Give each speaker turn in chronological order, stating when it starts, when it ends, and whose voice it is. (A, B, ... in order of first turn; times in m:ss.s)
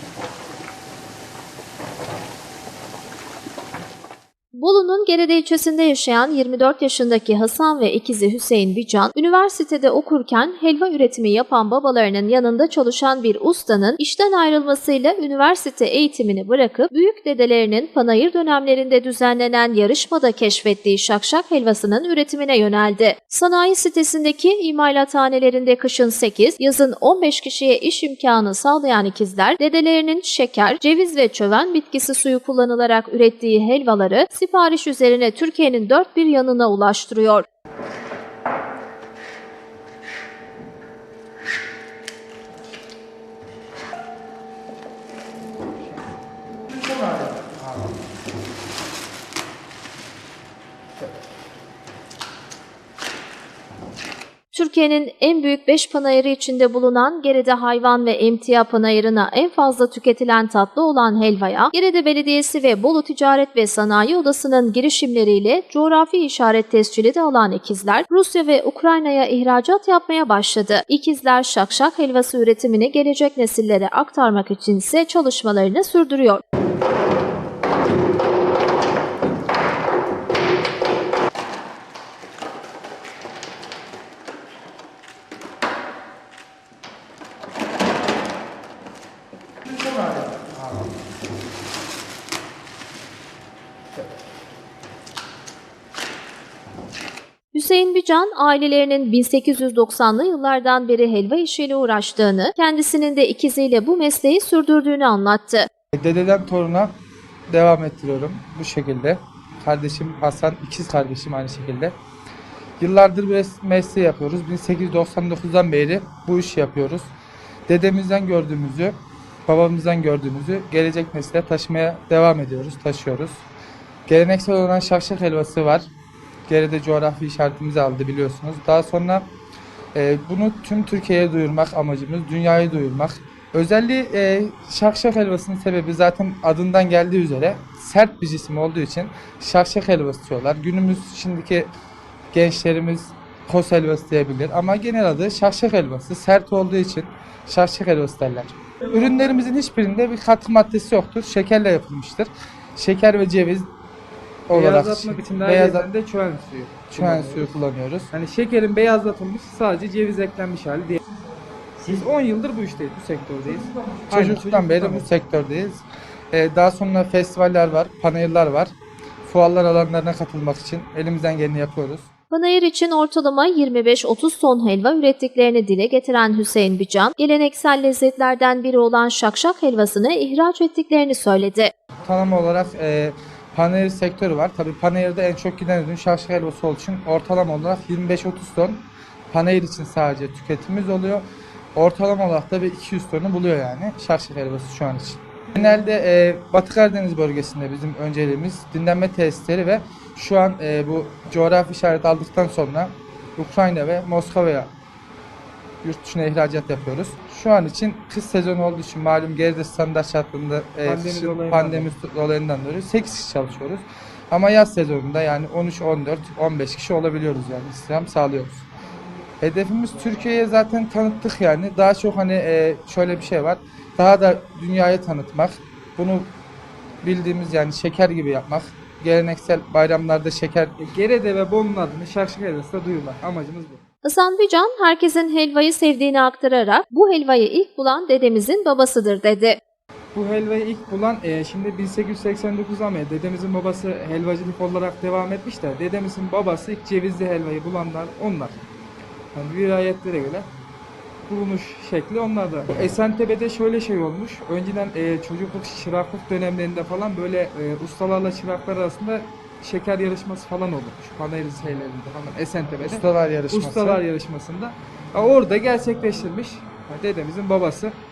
0:04.5-0:37.4 A
0:46.8-0:47.6 B
0:54.5-1:16.4 A
1:30.1-1:30.6 B
1:37.5-1:45.7 A
1:45.9-1:46.9 B
1:47.5-1:51.9 B
1:52.8-1:57.1 B
1:57.7-1:59.0 B
1:59.5-2:03.4 B
2:04.1-2:05.9 B
2:06.5-2:09.3 B
2:09.9-2:21.7 B
2:22.3-2:33.7 B
2:34.5-2:35.9 B
2:34.5-2:37.5 C
2:36.9-2:38.1 B
2:38.1-2:41.0 C
2:41.8-2:45.1 C
2:44.1-2:48.7 B
2:49.2-2:52.1 B
2:52.3-3:01.7 A
3:02.0-3:24.7 B
3:25.8-3:38.6 B
3:30.8-3:31.9 C
3:39.4-3:46.3 B
3:47.0-3:50.7 B
3:50.8-3:53.8 C
3:54.0-3:59.6 A
4:00.1-4:08.6 C
4:09.3-4:10.5 C
4:11.3-4:27.9 C
4:22.8-4:24.0 B